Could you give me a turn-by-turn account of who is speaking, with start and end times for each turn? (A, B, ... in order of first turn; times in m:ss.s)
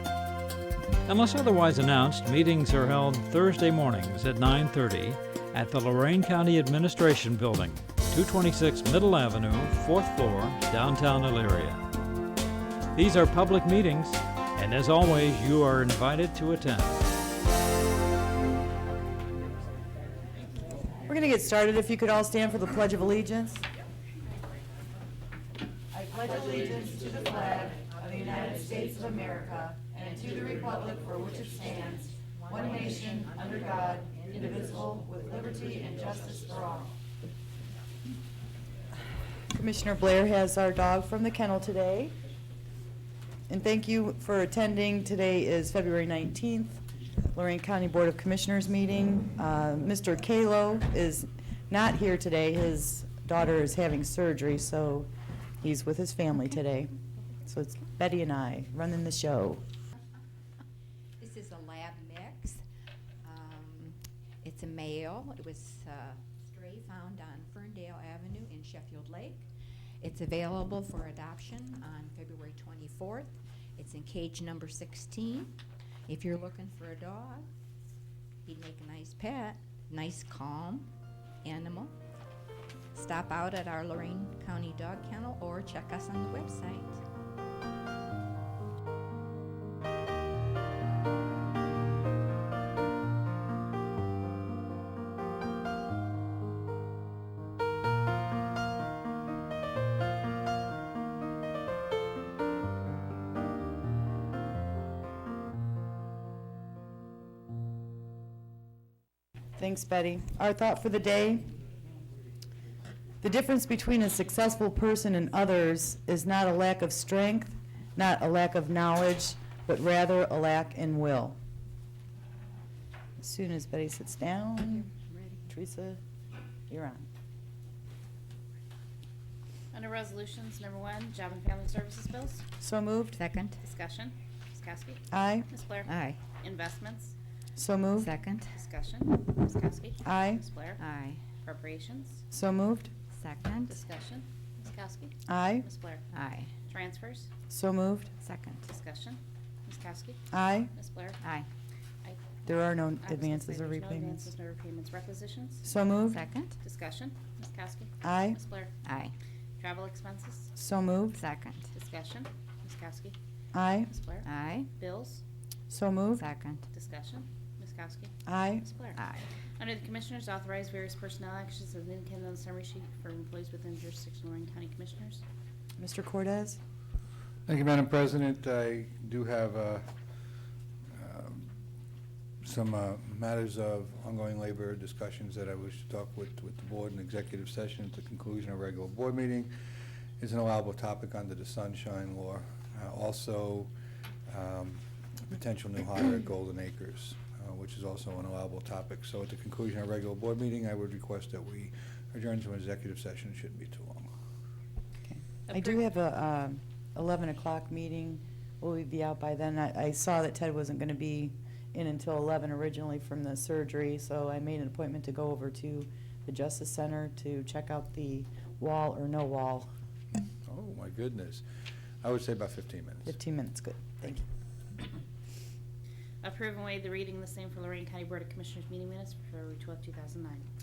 0:01.0-0:11.8 A
0:12.9-0:17.0 A
0:21.0-0:23.6 B
0:25.9-0:36.9 B
0:39.5-0:42.2 B
0:43.5-0:55.1 B
0:55.6-0:59.6 B
1:01.2-1:02.6 C
1:03.2-1:09.5 C
1:10.0-1:17.5 C
1:18.4-1:20.9 C
1:21.4-1:21.9 C
1:22.9-1:27.0 C
1:49.6-1:51.5 B
1:53.2-2:01.4 B
2:03.2-2:04.9 B
2:05.0-2:05.4 C
2:05.5-2:06.0 B
2:06.7-2:07.1 B
2:09.7-2:12.4 D
2:12.6-2:13.2 B
2:13.2-2:13.6 C
2:13.6-2:17.1 D
2:15.1-2:15.5 B
2:15.8-2:16.2 C
2:17.6-2:18.1 B
2:18.0-2:18.5 C
2:18.5-2:20.8 D
2:20.0-2:20.4 B
2:20.8-2:21.2 C
2:21.4-2:22.2 D
2:22.3-2:22.9 B
2:23.2-2:23.8 C
2:23.7-2:26.0 D
2:25.3-2:25.7 B
2:26.1-2:26.5 C
2:26.7-2:27.3 D
2:27.5-2:28.1 B
2:28.2-2:28.6 C
2:28.6-2:30.2 D
2:30.3-2:30.7 B
2:30.7-2:31.2 D
2:31.2-2:31.5 C
2:32.4-2:34.3 B
2:33.0-2:35.6 D
2:35.6-2:36.2 B
2:36.1-2:36.6 C
2:36.6-2:38.7 D
2:38.0-2:38.4 B
2:38.8-2:39.1 C
2:39.6-2:40.5 D
2:40.6-2:41.2 B
2:41.1-2:41.7 C
2:41.7-2:43.2 D
2:43.5-2:43.9 B
2:43.9-2:45.2 D
2:44.2-2:44.7 C
2:45.7-2:46.2 B
2:46.2-2:46.6 C
2:46.7-2:49.0 D
2:48.2-2:48.6 B
2:48.9-2:49.3 C
2:49.6-2:55.2 D
2:55.8-2:56.6 B
2:57.5-2:59.8 E
3:00.9-3:01.5 E
3:02.4-3:09.5 E
3:10.2-3:13.7 E
3:14.3-3:24.1 E
3:25.1-3:39.7 B
3:25.5-3:25.8 D
3:40.5-3:41.4 E
3:42.0-3:43.1 E
3:43.0-3:44.2 B
3:46.2-3:50.4 D